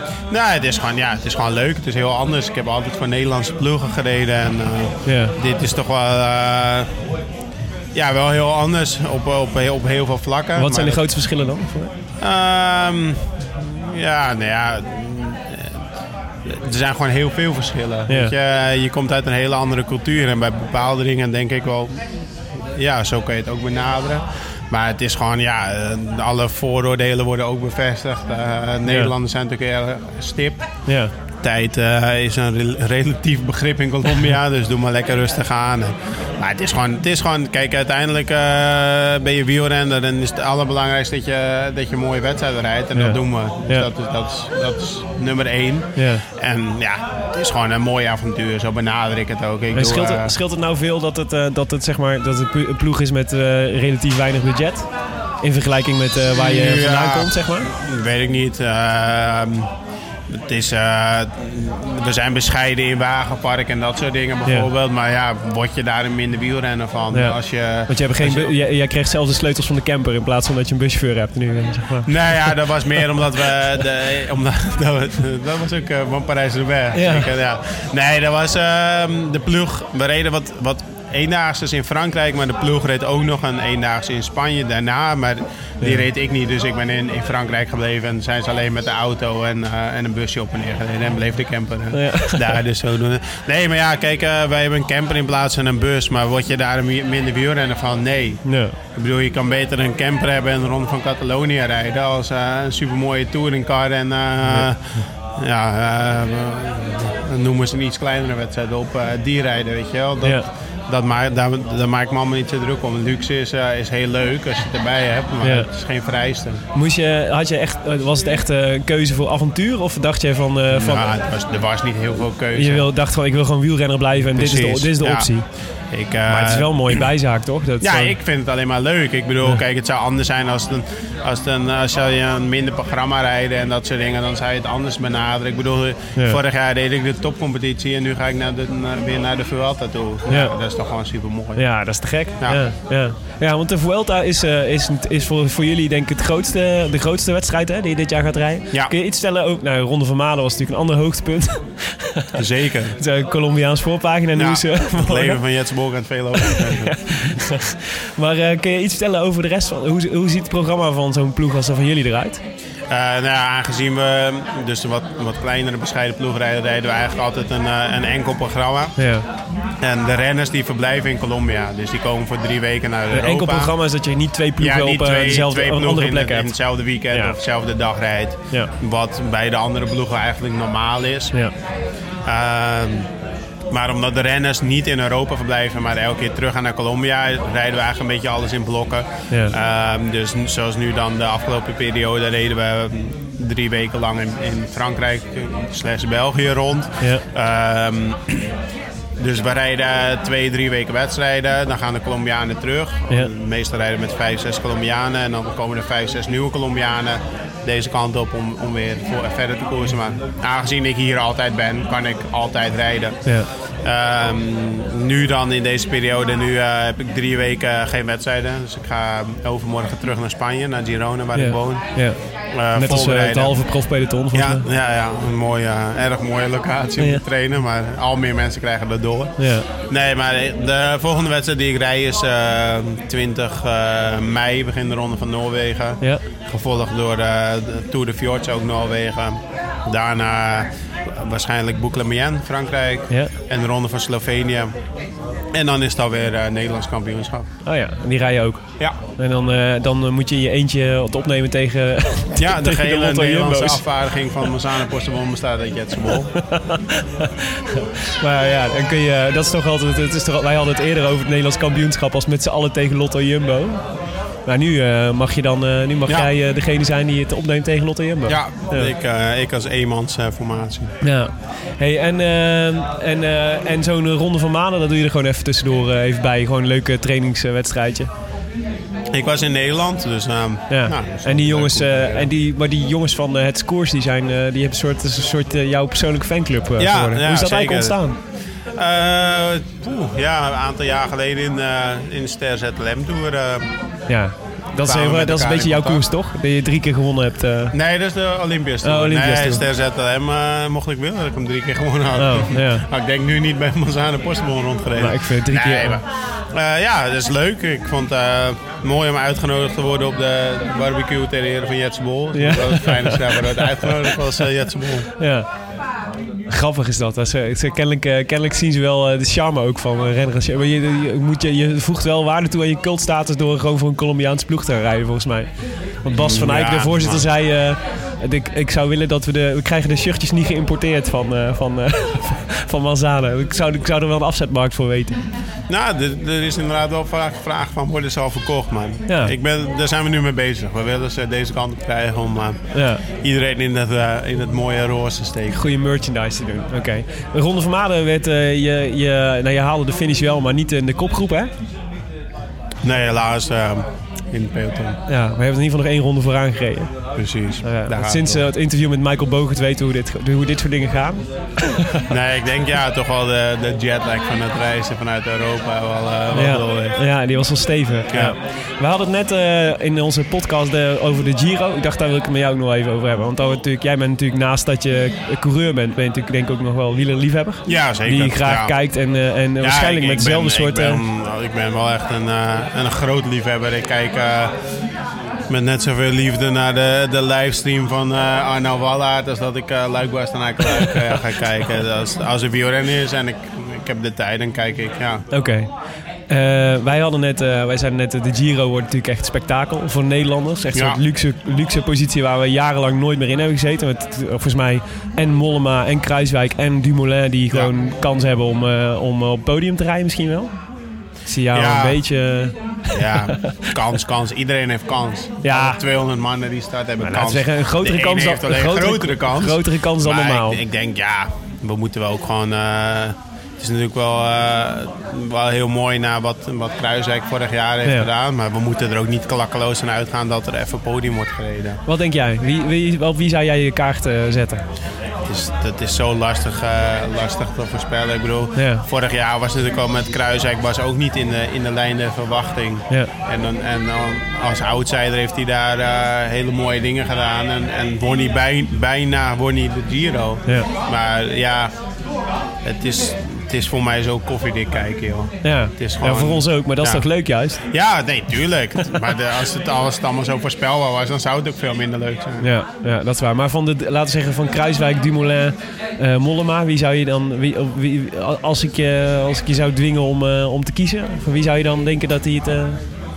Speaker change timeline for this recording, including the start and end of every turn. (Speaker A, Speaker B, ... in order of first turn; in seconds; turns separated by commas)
Speaker A: 0.3-6.9, Speaker B: 5.0-5.3, Speaker A: 7.9-11.0, Speaker B: 10.6-11.9, Speaker A: 12.2-15.8, Speaker A: 16.4-22.0, Speaker B: 18.1-18.3, Speaker A: 22.8-30.6, Speaker B: 28.9-29.1, Speaker B: 30.9-31.1, Speaker A: 31.4-50.3, Speaker B: 42.9-43.9, Speaker B: 45.9-46.2, Speaker B: 49.7-54.9, Speaker B: 55.4-57.7, Speaker A: 56.3-59.7, Speaker A: 60.3-68.5, Speaker B: 67.1-72.1, Speaker A: 72.0-98.4, Speaker B: 76.9-77.3, Speaker B: 85.8-86.0, Speaker B: 91.9-92.6, Speaker B: 98.4-98.7, Speaker A: 98.9-116.6, Speaker B: 104.4-104.7, Speaker B: 110.2-110.5, Speaker B: 115.4-115.7, Speaker B: 116.7-121.1, Speaker A: 120.7-122.9, Speaker B: 122.5-125.5, Speaker A: 124.3-127.0, Speaker B: 126.3-128.2, Speaker A: 127.8-141.6, Speaker B: 140.3-140.5, Speaker B: 141.6-152.3, Speaker A: 152.3-152.9, Speaker B: 152.9-155.4, Speaker A: 154.3-157.0, Speaker B: 156.4-162.4, Speaker A: 162.9-169.0, Speaker B: 169.0-169.2, Speaker A: 169.8-173.7, Speaker B: 173.1-177.4, Speaker A: 174.6-181.3, Speaker A: 182.2-183.1, Speaker A: 183.7-198.5, Speaker B: 189.3-189.5, Speaker B: 197.0-197.2, Speaker A: 199.2-213.2, Speaker A: 213.8-244.7, Speaker B: 221.3-224.6, Speaker B: 227.0-227.2, Speaker B: 229.4-229.7, Speaker A: 245.5-247.5, Speaker B: 247.6-253.8, Speaker A: 252.3-256.3, Speaker B: 256.4-263.8, Speaker B: 264.4-268.9, Speaker A: 268.2-270.9, Speaker B: 271.0-278.1, Speaker A: 279.1-282.3, Speaker B: 280.7-288.2, Speaker A: 286.8-288.0, Speaker A: 288.8-293.7, Speaker B: 294.1-297.7, Speaker A: 294.8-296.0, Speaker A: 297.7-315.1, Speaker B: 298.8-299.6, Speaker B: 302.2-302.8, Speaker B: 304.9-306.0, Speaker B: 312.3-314.1, Speaker B: 315.2-315.5, Speaker B: 316.5-335.2, Speaker A: 326.1-327.2, Speaker A: 335.7-345.6, Speaker B: 339.1-339.3, Speaker B: 342.7-343.0, Speaker B: 345.5-351.5, Speaker A: 352.8-355.0, Speaker B: 355.1-356.9, Speaker A: 357.1-358.5, Speaker B: 357.6-362.0, Speaker A: 362.1-367.0, Speaker B: 366.3-381.0, Speaker A: 368.1-368.3, Speaker A: 377.6-378.8, Speaker A: 379.6-384.5, Speaker A: 385.5-395.2, Speaker B: 395.3-395.7, Speaker B: 396.3-410.5, Speaker A: 400.7-401.0, Speaker B: 411.2-413.6, Speaker A: 411.5-412.0, Speaker A: 412.9-431.8, Speaker B: 415.4-415.8, Speaker B: 417.0-420.6, Speaker B: 431.8-434.6, Speaker A: 435.2-451.7, Speaker B: 438.5-438.8, Speaker A: 452.6-462.5, Speaker B: 455.4-457.6, Speaker B: 462.4-472.8